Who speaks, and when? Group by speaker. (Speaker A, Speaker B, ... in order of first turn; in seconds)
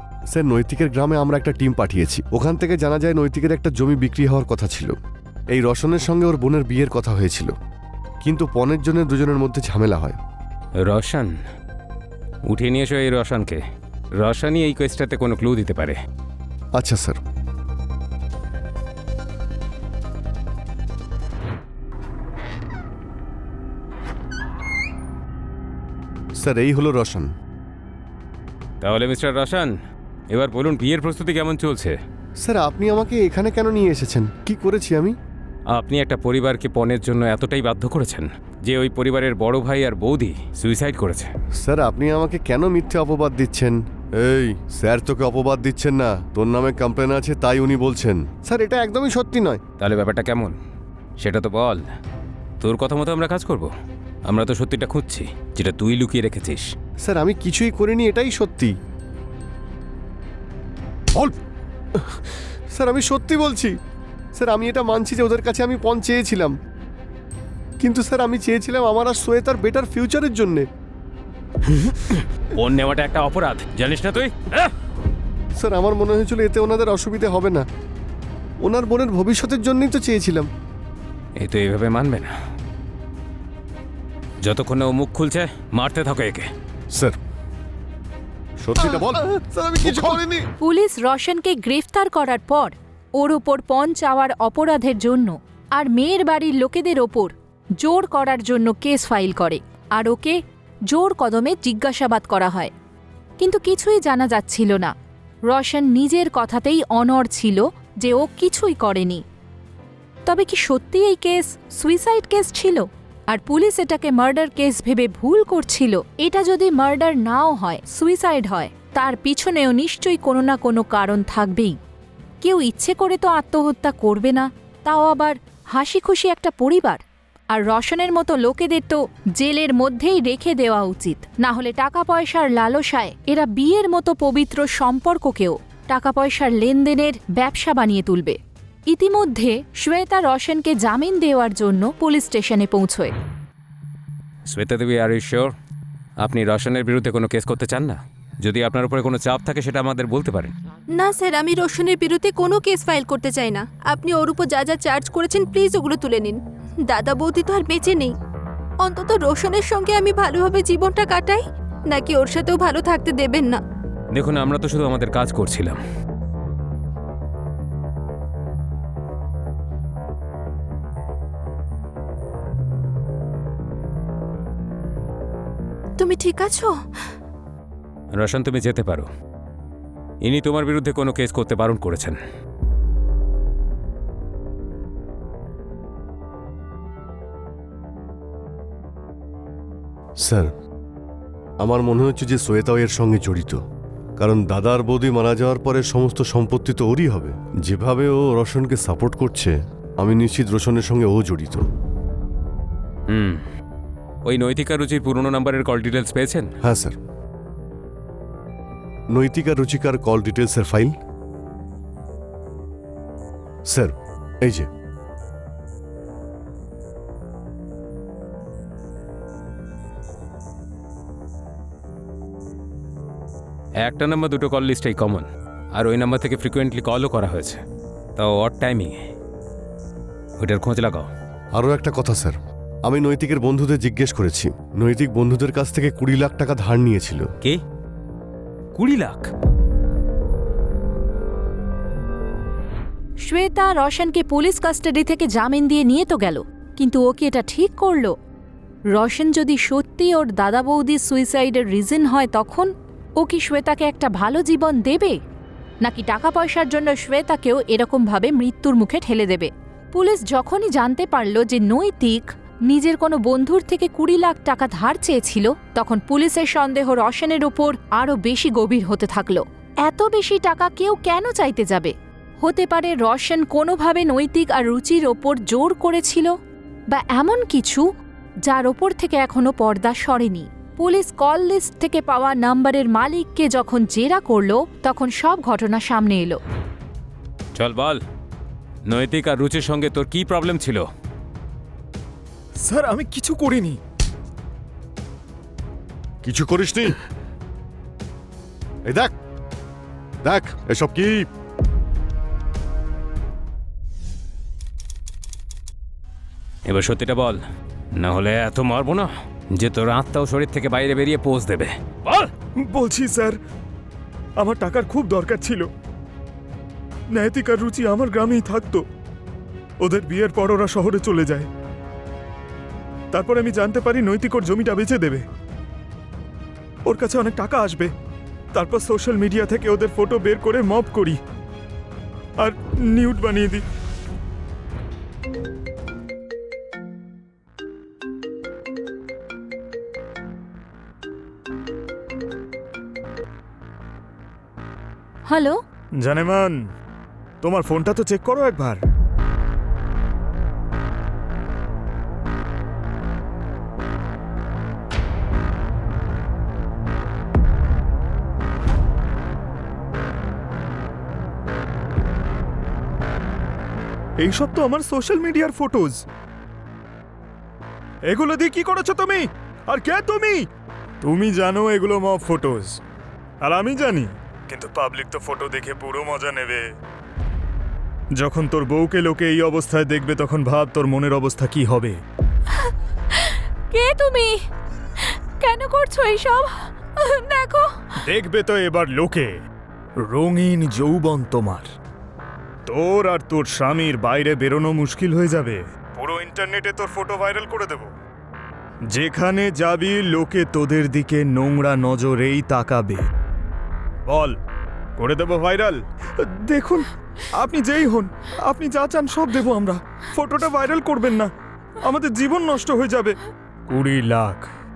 Speaker A: 0.3-4.9, 5.5-7.5, 8.2-10.2, 16.8-17.2, 26.4-27.3, 32.4-35.1, 41.6-49.6, 57.0-58.7, 61.9-63.7, 64.3-66.5, 67.8-70.7, 75.6-77.6, 78.6-80.5, 88.6-90.5, 190.2-190.5, 191.6-193.6, 194.2-201.6, 206.6-206.9, 209.1-210.9, 213.7-214.7, 231.6-237.3, 296.2-297.0, 298.9-299.1, 300.2-301.3
Speaker B: 10.8-11.3, 12.5-13.6, 14.2-16.0, 28.8-29.7, 30.3-32.0, 35.7-41.3, 49.8-50.6, 51.2-51.8, 52.6-53.7, 54.2-56.7, 71.7-74.7, 81.4-82.3, 84.4-86.5, 144.5-145.5, 146.2-150.5, 164.1-165.8, 178.1-179.1, 180.2-182.2, 203.1-203.4, 204.2-206.5, 223.8-227.6, 228.2-228.9, 230.4-231.1, 238.7-239.3, 287.5-288.0, 288.9-290.9, 306.6-307.4, 307.9-312.3
Speaker C: 90.6-100.4, 100.9-102.7, 103.4-104.9, 105.5-109.2, 110.2-121.7, 122.4-138.4, 138.9-143.1, 243.2-248.1, 248.9-255.1, 255.8-276.3, 276.9-277.9, 278.5-286.4, 345.3-345.6, 383.1-384.4, 385.0-387.7
Speaker D: 150.9-158.1, 158.8-163.6, 176.0-176.7
Speaker E: 292.6-293.8, 312.6-313.4, 314.4-315.7, 317.1-318.8, 319.8-321.5, 323.1-325.2, 326.9-327.9, 328.5-331.2, 332.4-333.6, 346.0-346.6, 347.4-348.8, 364.2-366.0, 368.1-370.5, 371.0-372.8, 373.4-376.7, 378.2-382.0, 388.0-389.4, 390.0-391.7, 392.6-397.9, 398.9-403.1, 404.1-404.4, 405.0-413.1, 413.7-414.5